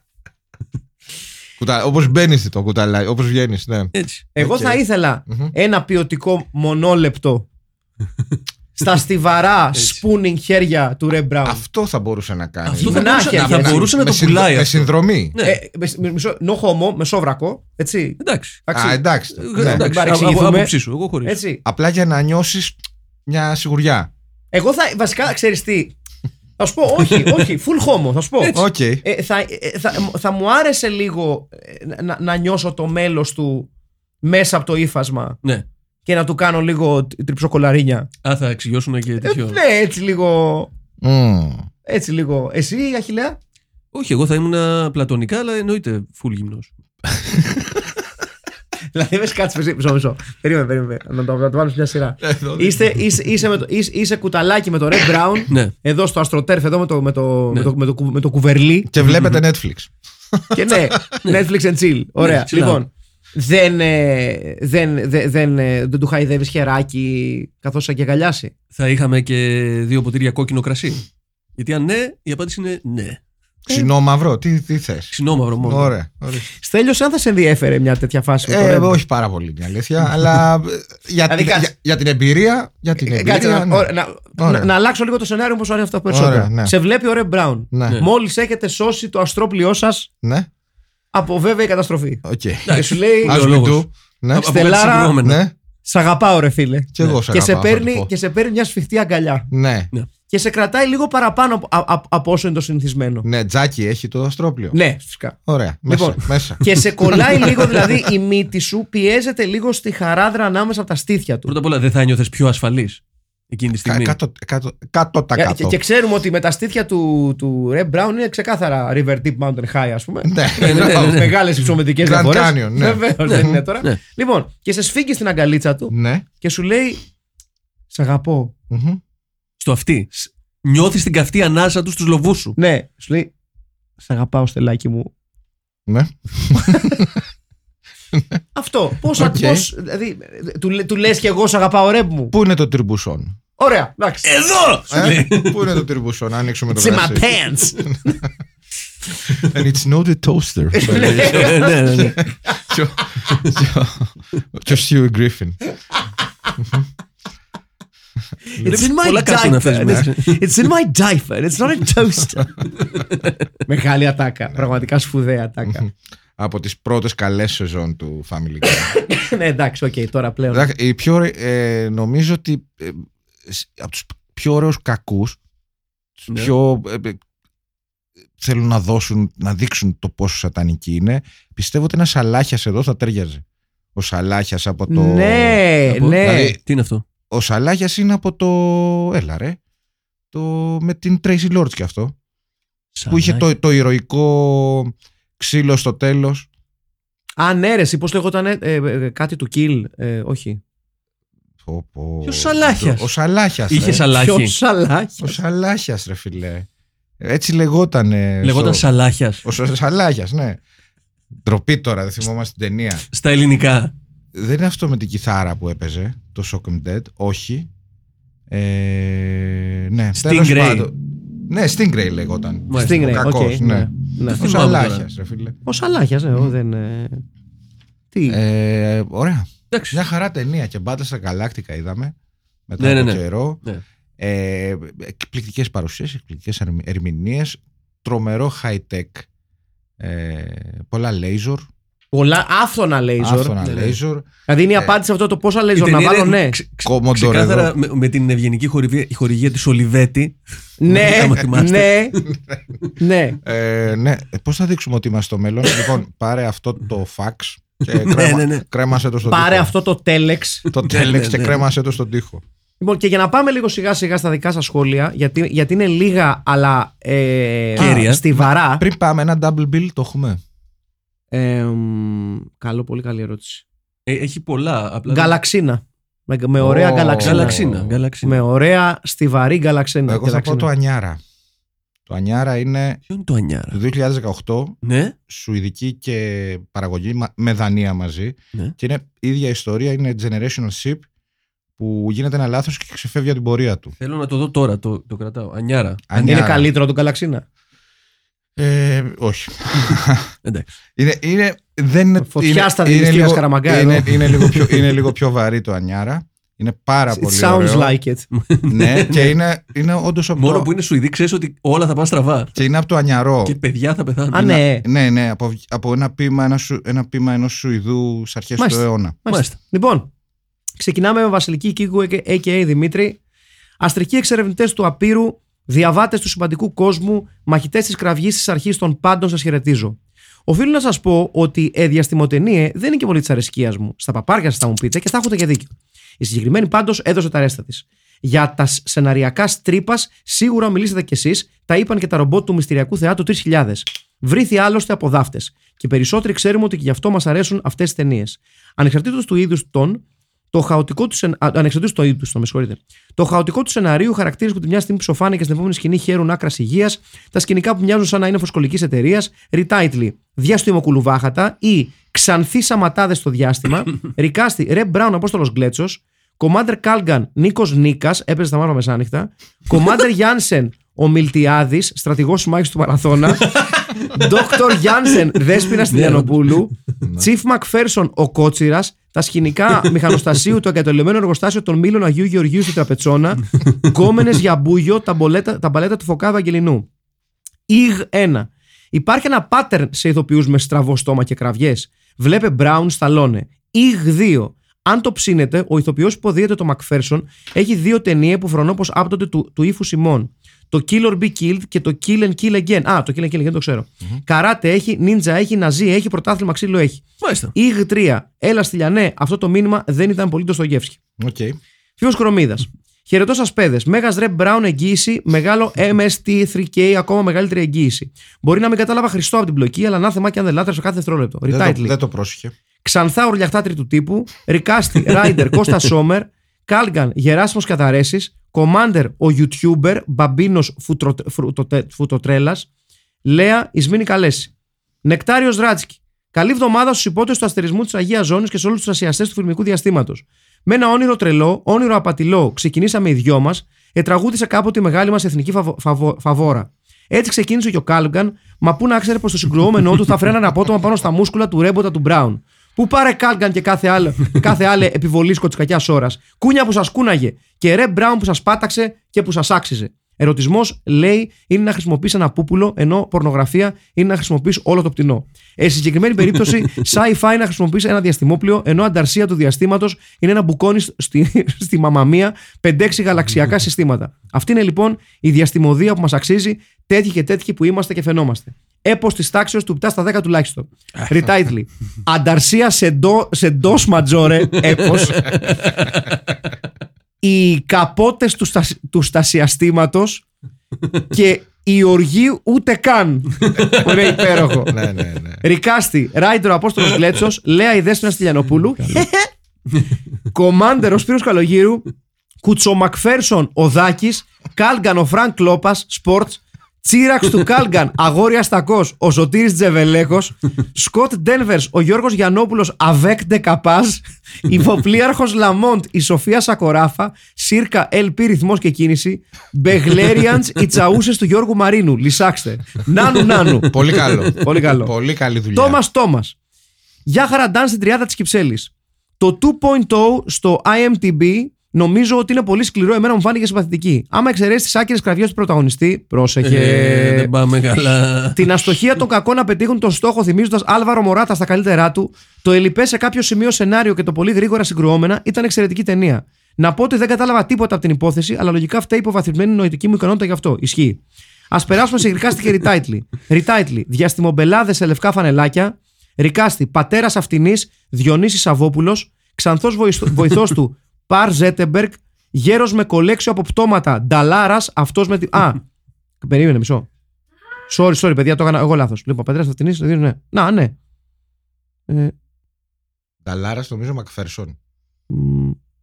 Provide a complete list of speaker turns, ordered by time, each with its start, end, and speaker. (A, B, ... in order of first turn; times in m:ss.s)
0:01.6-0:03.9 A
0:03.9-0:04.8 B
0:04.4-0:07.5 C
0:08.8-0:11.6 C
0:09.8-0:10.0 B
0:11.4-0:15.4 A
0:12.7-0:15.6 B
0:12.8-0:13.9 C
0:15.4-0:19.0 C
0:18.2-0:18.6 B
0:18.7-0:19.8 A
0:19.4-0:21.4 B
0:19.5-0:20.7 C
0:21.2-0:21.6 C
0:21.6-0:24.1 A
0:24.5-0:26.0 C
0:26.6-0:33.7 C
0:28.5-0:29.0 A
0:34.2-0:35.4 C
0:36.1-0:38.1 C
0:38.2-0:39.6 B
0:39.2-0:40.7 C
0:41.0-0:41.7 A
0:41.8-0:43.4 C
0:43.9-0:46.7 B
0:47.1-0:47.8 A
0:48.9-0:58.9 C
0:52.2-0:52.8 A
0:58.9-1:00.8 A
0:59.0-0:59.4 B
1:00.5-1:08.5 C
1:02.2-1:02.8 B
1:08.8-1:11.0 B
1:11.6-1:13.2 B
1:13.7-1:16.5 A
1:15.1-1:15.9 B
1:16.5-1:19.0 C
1:18.4-1:24.7 A
1:21.3-1:21.7 C
1:23.0-1:30.1 C
1:26.1-1:26.7 A
1:27.7-1:28.0 A
1:30.2-1:30.5 A
1:31.1-1:33.4 C
1:32.2-1:34.6 A
1:32.7-1:35.4 B
1:34.4-1:35.2 C
1:35.2-1:35.5 A
1:35.8-1:39.5 C
1:36.9-1:38.1 A
1:39.5-1:39.9 A
1:40.3-1:43.3 C
1:43.2-1:44.8 A
1:44.7-1:45.4 C
1:45.5-1:46.6 A
1:45.9-1:51.5 C
1:47.4-1:47.9 B
1:51.5-1:54.2 B
1:53.8-1:55.8 A
1:55.4-2:07.0 C
2:00.2-2:01.2 A
2:00.6-2:01.4 B
2:02.0-2:03.6 A
2:03.3-2:04.0 B
2:05.9-2:06.2 A
2:07.9-2:08.5 C
2:08.7-2:09.0 A
2:09.6-2:12.6 B
2:12.6-2:13.3 C
2:14.0-2:15.1 C
2:15.9-2:17.2 A
2:18.6-2:22.3 C
2:19.1-2:19.7 A
2:22.3-2:23.4 A
2:23.6-2:24.4 C
2:24.2-2:25.7 B
2:24.9-2:28.3 A
2:26.7-2:27.8 C
2:29.3-2:31.5 A
2:30.7-2:32.6 C
2:30.9-2:32.2 B
2:32.2-2:35.6 A
2:38.6-2:42.6 C
2:38.6-2:40.4 B
2:43.7-2:45.8 C
2:45.7-2:48.9 A
2:48.6-2:50.7 C
2:50.5-2:55.4 A
2:56.2-2:57.2 A
2:58.4-3:03.4 A
3:04.0-3:05.6 A
3:04.9-3:06.6 C
3:05.9-3:07.0 B
3:06.2-3:06.6 A
3:07.3-3:09.6 A
3:10.3-3:12.2 A
3:13.0-3:13.4 B
3:13.1-3:16.5 A
3:17.4-3:20.6 C
3:21.6-3:24.0 A
3:22.2-3:23.1 B
3:23.7-3:24.5 B
3:24.1-3:25.4 C
3:25.2-3:26.7 A
3:27.2-3:28.8 A
3:28.4-3:29.4 B
3:29.4-3:30.6 A
3:31.4-3:33.0 A
3:33.1-3:33.9 B
3:34.3-3:37.7 A
3:38.5-3:45.6 A
3:40.2-3:40.9 B
3:42.7-3:43.2 B
3:42.8-3:44.6 C
3:44.3-3:45.0 B
3:45.7-3:47.2 C
3:48.1-3:48.4 C
3:48.3-3:52.1 A
3:49.7-3:50.0 B
3:52.7-3:53.6 A
3:52.8-3:53.8 B
3:54.2-3:59.3 A
4:00.0-4:01.7 A
4:02.1-4:03.5 C
4:03.2-4:05.0 A
4:03.6-4:04.0 B
4:04.5-4:06.6 C
4:05.8-4:12.3 B
4:06.8-4:07.7 A
4:10.8-4:12.2 C
4:13.0-4:13.4 C
4:13.4-4:19.7 A
4:17.9-4:18.6 B
4:19.3-4:20.6 C
4:20.7-4:22.4 A
4:20.8-4:21.6 B
4:22.8-4:28.8 C
4:27.8-4:28.2 B
4:28.3-4:30.4 A
4:31.3-4:33.6 C
4:34.1-4:35.4 B
4:35.1-4:37.6 C
4:36.6-4:38.0 A
4:37.2-4:38.4 B
4:38.2-4:40.7 C
4:40.1-4:41.2 A
4:42.1-4:43.0 A
4:43.1-4:43.8 B
4:43.7-4:51.1 A
4:44.8-4:45.2 B
4:51.8-4:53.9 A
4:54.0-4:56.4 B
4:56.1-4:56.7 A
4:56.2-4:57.4 C
4:58.6-5:00.3 A
5:01.0-5:07.9 A
5:02.2-5:04.2 C
5:04.4-5:04.9 B
5:07.1-5:08.3 C
5:08.3-5:09.4 B
5:08.7-5:10.7 A
5:10.4-5:12.5 B
5:12.5-5:13.6 A
5:13.4-5:14.6 B
5:14.3-5:14.9 C
5:14.4-5:19.2 A
5:18.6-5:20.1 C
5:19.3-5:19.6 B
5:20.8-5:23.2 C
5:23.8-6:26.9 C
6:15.9-6:16.4 B
6:17.0-6:17.3 A
6:27.7-6:51.0 C
6:47.2-6:47.5 B
6:51.2-6:51.6 A
6:52.0-7:01.9 C
7:01.5-7:02.5 A
7:02.8-7:12.7 C
7:13.2-7:14.5 C
7:15.0-8:05.3 C
8:04.9-8:06.1 B
8:07.2-8:10.2 C
8:11.1-8:14.7 C
8:13.6-8:13.9 B
8:14.7-8:15.4 A
8:15.4-8:19.3 C
8:20.3-8:21.9 C
8:22.4-8:43.8 C
8:43.7-8:45.8 A
8:44.4-8:44.9 C
8:45.5-8:46.4 C
8:47.1-8:57.3 C
8:56.4-8:58.7 B
8:58.4-9:25.6 C
9:26.2-9:26.9 C
9:27.7-9:30.7 C
9:33.2-9:34.6 A
9:35.1-9:35.6 C